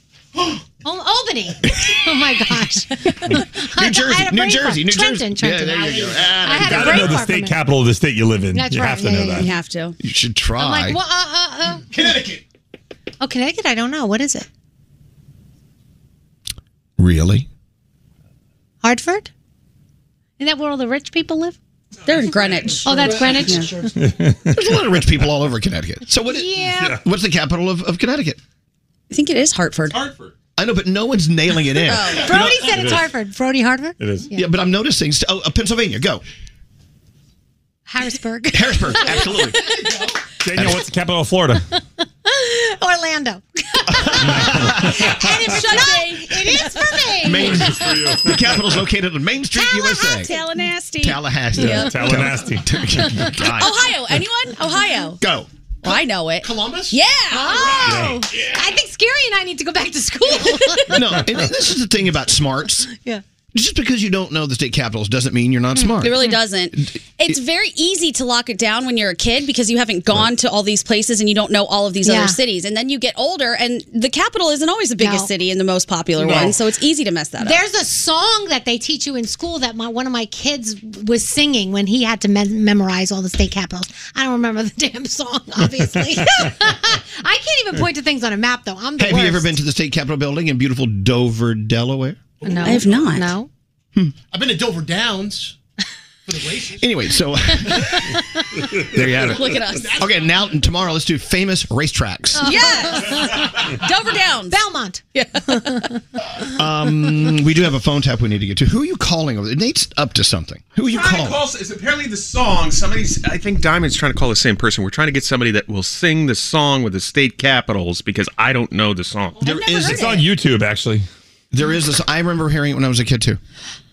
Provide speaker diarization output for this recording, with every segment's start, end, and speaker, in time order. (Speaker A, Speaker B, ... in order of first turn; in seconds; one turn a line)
Speaker A: 0.8-7.6
Speaker B: 1.6-2.0
Speaker B: 3.2-7.2
Speaker C: 5.6-6.5
Speaker D: 6.6-9.5
Speaker A: 8.5-9.5
Speaker E: 9.3-9.9
Speaker B: 10.0-11.0
Speaker A: 10.6-12.2
Speaker C: 11.8-12.4
Speaker A: 13.2-14.5
Speaker B: 17.0-17.5
Speaker A: 18.8-19.3
Speaker A: 20.4-21.6
Speaker E: 22.1-23.7
Speaker A: 22.8-23.9
Speaker C: 22.9-23.3
Speaker D: 24.0-24.4
Speaker B: 24.5-28.4
Speaker A: 26.2-27.0
Speaker D: 26.6-27.0
Speaker E: 29.1-30.0
Speaker F: 29.9-30.3
Speaker B: 30.6-32.9
Speaker E: 31.8-32.3
Speaker A: 32.2-34.5
Speaker D: 32.6-33.1
Speaker D: 34.0-34.3
Speaker B: 34.3-36.2
Speaker A: 37.9-39.8
Speaker B: 38.5-39.7
Speaker C: 39.6-40.2
Speaker D: 40.4-41.6
Speaker B: 40.5-40.8
Speaker A: 42.2-48.4
Speaker B: 43.9-45.0
Speaker D: 44.2-45.8
Speaker E: 45.5-47.0
Speaker B: 47.2-50.4
Speaker D: 47.4-48.8
Speaker E: 49.5-52.2
Speaker B: 51.0-53.7
Speaker D: 51.6-53.2
Speaker A: 53.0-53.3
Speaker E: 53.5-55.2
Speaker B: 55.2-55.5
Speaker E: 55.8-57.8
Speaker C: 55.9-58.5
Speaker A: 57.3-61.4
Speaker D: 57.8-58.2
Speaker B: 60.8-62.9
Speaker A: 62.9-63.2
Speaker B: 63.5-66.2
Speaker A: 65.8-66.4
Speaker E: 66.0-77.6
Speaker B: 66.7-67.4
Speaker A: 72.0-72.4
Speaker A: 75.0-75.3
Speaker A: 77.4-89.6
Speaker D: 86.0-86.5
Speaker B: 89.0-92.2
Speaker C: 92.4-93.0
Speaker A: 92.4-93.5
Speaker E: 92.6-93.3
Speaker C: 94.3-95.5
Speaker C: 96.3-96.8
Speaker B: 96.8-98.1
Speaker B: 98.9-102.8
Speaker E: 99.2-100.0
Speaker C: 99.6-100.4
Speaker A: 102.3-106.0
Speaker E: 102.4-103.2
Speaker E: 103.8-104.6
Speaker E: 105.1-105.9
Speaker B: 106.5-111.5
Speaker F: 110.8-119.4
Speaker B: 119.4-120.1
Speaker A: 119.4-120.1
Speaker E: 119.5-120.2
Speaker D: 119.8-121.1
Speaker B: 121.5-123.4